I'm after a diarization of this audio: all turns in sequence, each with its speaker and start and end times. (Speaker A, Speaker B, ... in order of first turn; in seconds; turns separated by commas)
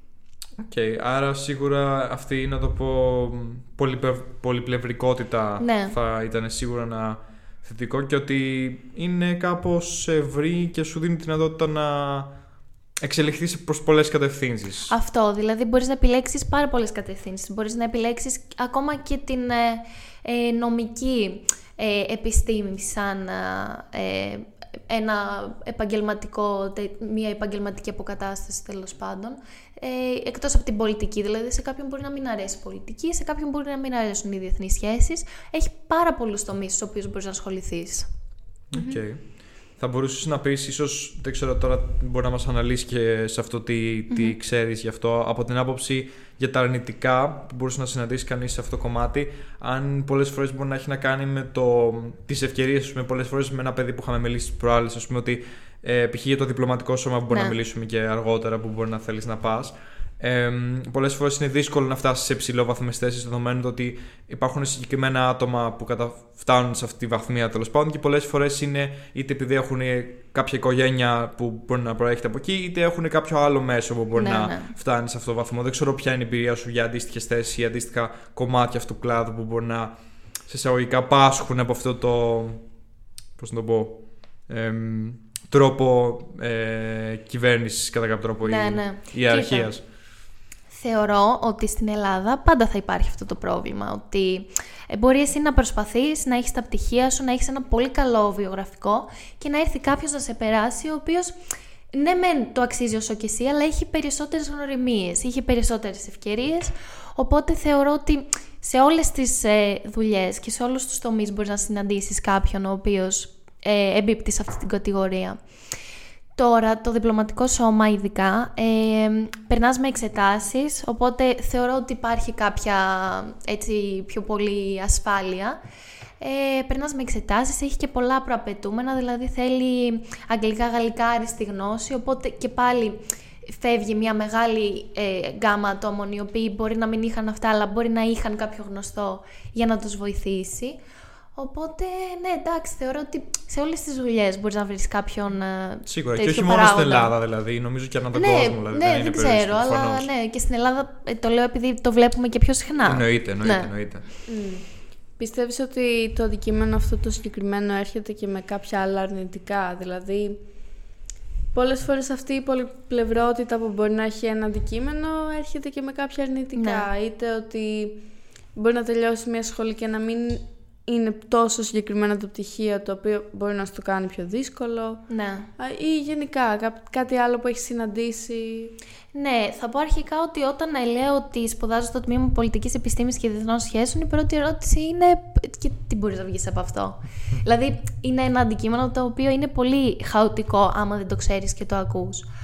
Speaker A: 0.6-12.3, Speaker B: 5.6-5.9, Speaker A: 13.0-14.9, Speaker B: 14.9-38.1, Speaker A: 38.7-82.6, Speaker C: 38.7-39.0, Speaker B: 44.1-44.4, Speaker B: 57.3-57.5, Speaker B: 74.1-74.7, Speaker A: 83.4-89.8, Speaker B: 88.4-89.7, Speaker B: 90.7-101.3, Speaker B: 101.9-115.4, Speaker B: 116.3-125.6, Speaker B: 126.2-140.8, Speaker B: 141.3-147.1, Speaker A: 145.8-150.1, Speaker B: 148.1-153.7, Speaker A: 152.8-154.0, Speaker C: 154.3-160.4, Speaker C: 161.5-175.0, Speaker B: 166.5-166.8, Speaker B: 175.1-175.5, Speaker C: 175.6-178.8, Speaker B: 179.1-192.3